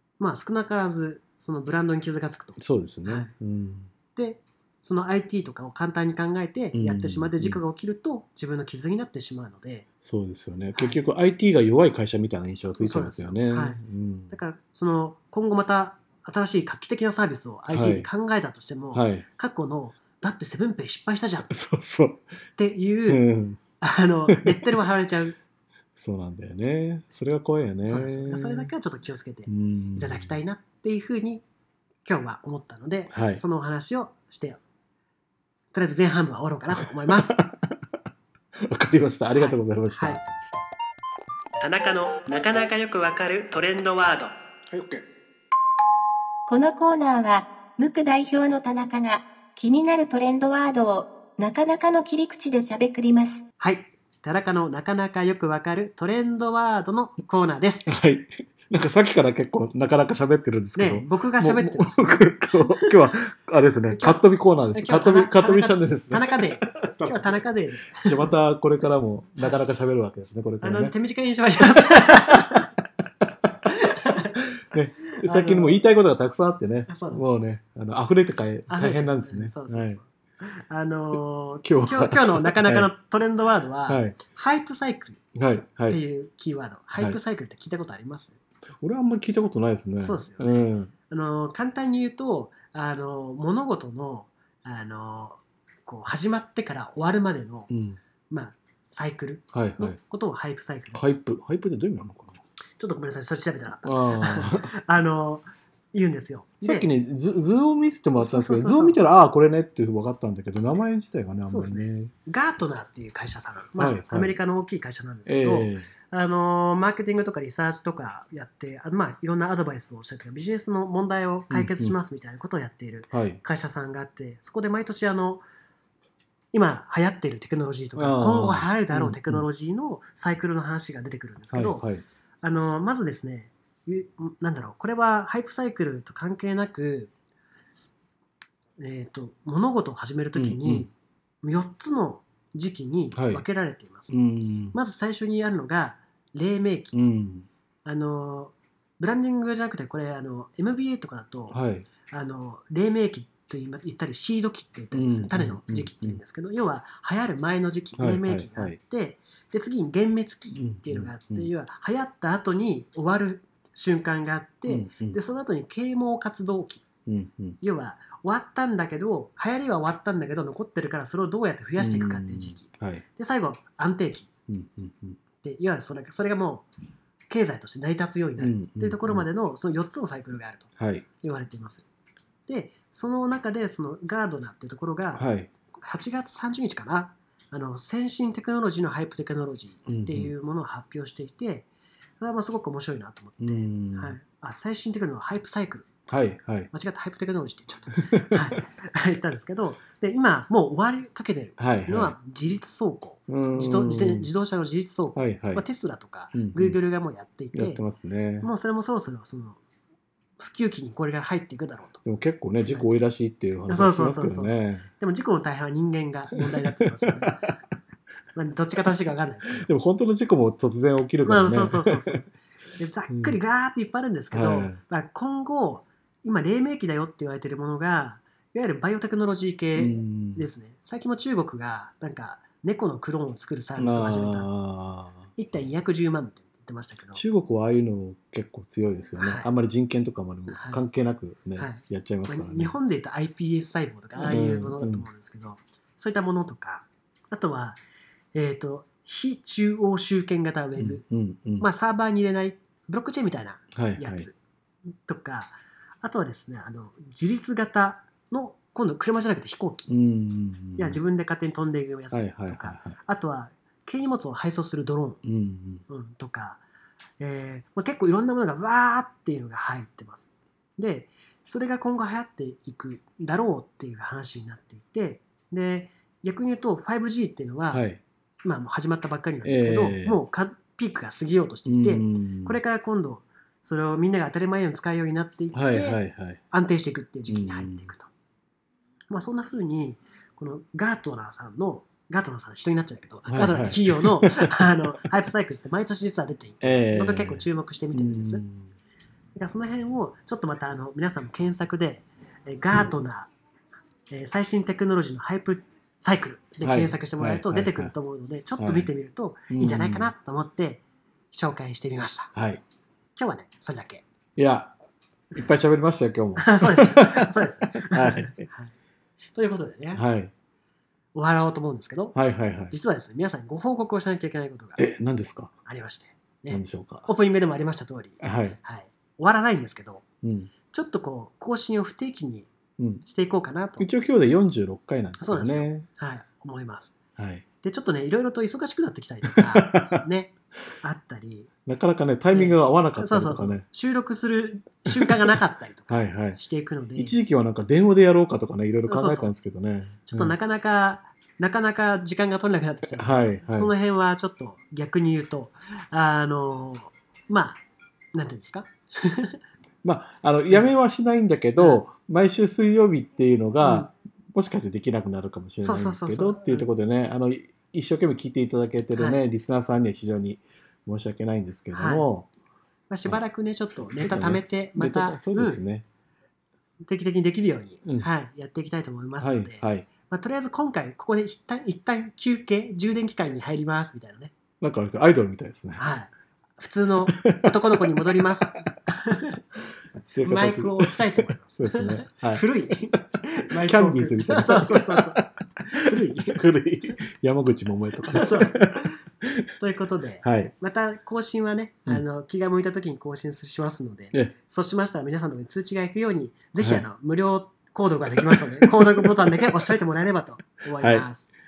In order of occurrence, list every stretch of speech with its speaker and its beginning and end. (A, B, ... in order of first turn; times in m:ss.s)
0:00.2-0:03.3 A
0:02.6-0:03.9 B
0:04.1-0:09.9 A
0:06.7-0:07.6 B
0:10.0-0:14.3 B
0:12.8-0:21.5 A
0:17.7-0:18.1 B
0:18.9-0:19.2 B
0:21.5-0:22.2 B
0:22.6-0:23.2 A
0:23.1-0:23.6 B
0:23.8-0:25.4 A
0:24.3-0:24.8 B
0:26.0-0:28.7 B
0:27.8-0:31.4 A
0:29.5-0:30.4 B
0:32.0-0:34.6 A
0:33.1-0:33.4 B
0:35.7-0:37.4 A
0:36.7-0:37.8 B
0:38.6-0:40.5 B
0:39.3-0:40.2 A
0:41.6-0:44.4 A
0:44.7-0:45.0 B
0:46.5-0:53.4 C
0:53.6-0:57.9 A
0:57.9-1:07.3 B
1:00.8-1:03.1 A
1:03.9-1:04.2 A
1:04.7-1:08.3 A
1:07.9-1:10.9 B
1:10.6-1:12.7 A
1:13.6-1:14.4 A
1:14.6-1:20.0 B
1:15.1-1:15.8 A
1:16.9-1:17.4 A
1:18.7-1:25.2 A
1:21.6-1:22.9 B
1:23.9-1:24.2 B
1:25.4-1:26.0 B
1:25.9-1:28.4 A
1:28.8-1:30.9 B
1:30.0-1:37.7 A
1:37.7-1:38.0 B
1:38.3-1:41.0 A
1:39.5-1:40.0 B
1:40.9-1:42.4 B
1:42.8-1:46.9 A
1:43.8-1:44.7 B
1:46.6-1:52.1 B
1:48.2-1:49.0 A
1:51.5-2:05.4 A
1:53.8-1:54.4 B
1:55.2-1:55.9 B
2:01.5-2:01.9 B
2:03.1-2:03.4 B
2:06.5-2:11.9 A
2:08.0-2:09.5 B
2:11.5-2:12.0 B
2:12.4-2:17.1 A
2:18.8-2:20.9 A
2:20.4-2:20.9 B
2:21.4-2:24.2 A
2:23.1-2:23.4 B
2:24.1-2:24.8 B
2:24.7-2:27.0 A
2:26.9-2:27.5 B
2:27.8-2:46.9 A
2:31.5-2:31.9 B
2:34.9-2:36.2 B
2:38.0-2:38.8 B
2:40.5-2:41.5 B
2:44.7-2:45.2 B
2:47.1-2:47.6 B
2:47.6-2:54.3 A
2:51.8-2:53.0 B
2:54.5-2:55.2 B
2:55.4-2:56.7 A
2:57.3-3:01.9 A
2:58.4-2:59.2 B
3:00.8-3:01.0 B
3:02.5-3:11.7 A
3:05.1-3:05.5 B
3:09.9-3:10.3 B
3:12.2-3:15.9 A
3:13.4-3:14.2 B
3:16.1-3:16.7 B
3:16.7-3:27.8 A
3:18.0-3:18.5 B
3:21.6-3:22.2 B
3:23.3-3:24.3 B
3:25.2-3:25.6 B
3:26.3-3:26.8 B
3:27.5-3:28.5 B
3:28.4-3:29.6 A
3:30.4-3:32.0 A
3:32.0-3:34.9 B
3:32.6-3:32.9 A
3:33.7-3:37.5 A
3:36.4-3:37.6 B
3:38.4-3:39.7 A
3:39.5-3:42.2 B
3:41.2-3:54.5 A
3:43.1-3:43.4 B
3:44.3-3:44.8 B
3:49.8-3:50.5 B
3:53.8-3:55.2 B
3:55.4-3:57.2 A
3:57.1-4:02.8 B
3:59.2-3:59.5 A
4:00.5-4:00.8 A
4:01.6-4:07.8 A
4:04.2-4:05.1 B
4:08.3-4:11.0 A
4:10.8-4:11.7 B
4:11.6-4:14.4 A
4:13.8-4:14.3 B
4:15.0-4:19.9 A
4:19.9-4:21.0 B
4:20.8-4:25.2 A
4:22.1-4:23.0 B
4:25.2-4:25.8 B
4:25.9-4:26.6 A
4:27.2-4:37.9 A
4:37.7-4:38.0 B
4:38.4-4:48.1 A
4:39.4-4:40.2 B
4:41.7-4:42.6 B
4:45.5-4:46.4 B
4:47.3-4:47.9 B
4:49.1-4:58.4 A
4:53.3-4:54.9 B
4:56.6-4:58.7 B
4:59.4-5:03.3 A
5:04.1-5:12.3 A
5:06.6-5:07.9 B
5:08.6-5:08.9 B
5:09.5-5:10.1 B
5:12.4-5:12.6 B
5:13.2-5:14.0 A
5:14.4-5:14.8 B
5:15.3-5:18.5 B
5:16.4-5:18.7 A
5:19.3-5:20.0 A
5:19.9-5:20.3 B
5:21.1-5:22.2 A
5:22.1-5:22.7 B
5:22.7-5:24.8 A
5:24.8-5:25.5 B
5:25.6-5:30.0 A
5:26.5-5:27.1 B
5:28.2-5:28.6 B
5:30.2-5:30.5 B
5:30.7-5:32.5 A
5:32.8-5:33.0 B
5:33.0-5:33.9 A
5:33.8-5:35.9 B
5:35.2-5:37.0 A
5:37.2-5:37.4 B
5:37.6-5:41.5 A
5:39.3-5:40.0 B
5:41.6-5:43.6 B
5:42.3-5:47.2 A
5:44.9-5:45.2 B
5:45.9-5:46.4 B
5:47.0-5:50.4 B
5:48.9-5:49.3 A
5:50.0-5:57.6 A
5:52.9-5:53.7 B
5:58.2-5:59.4 A
5:59.8-6:12.3 B
6:01.6-6:01.8 A
6:03.6-6:03.9 A
6:05.6-6:06.6 A
6:08.9-6:09.2 A
6:11.7-6:12.1 A
6:12.9-6:15.6 A
6:14.0-6:15.8 B
6:16.9-6:24.4 A
6:17.8-6:18.1 B
6:19.2-6:19.9 B
6:24.6-6:25.8 B
6:25.8-6:29.4 A
6:27.1-6:28.3 B
6:30.1-6:33.0 B
6:30.2-6:36.4 A
6:33.6-6:38.8 B
6:38.1-6:38.9 A
6:39.6-6:51.3 A
6:40.2-6:40.5 B
6:46.6-6:46.9 B
6:48.2-6:49.7 B
6:50.8-6:51.1 B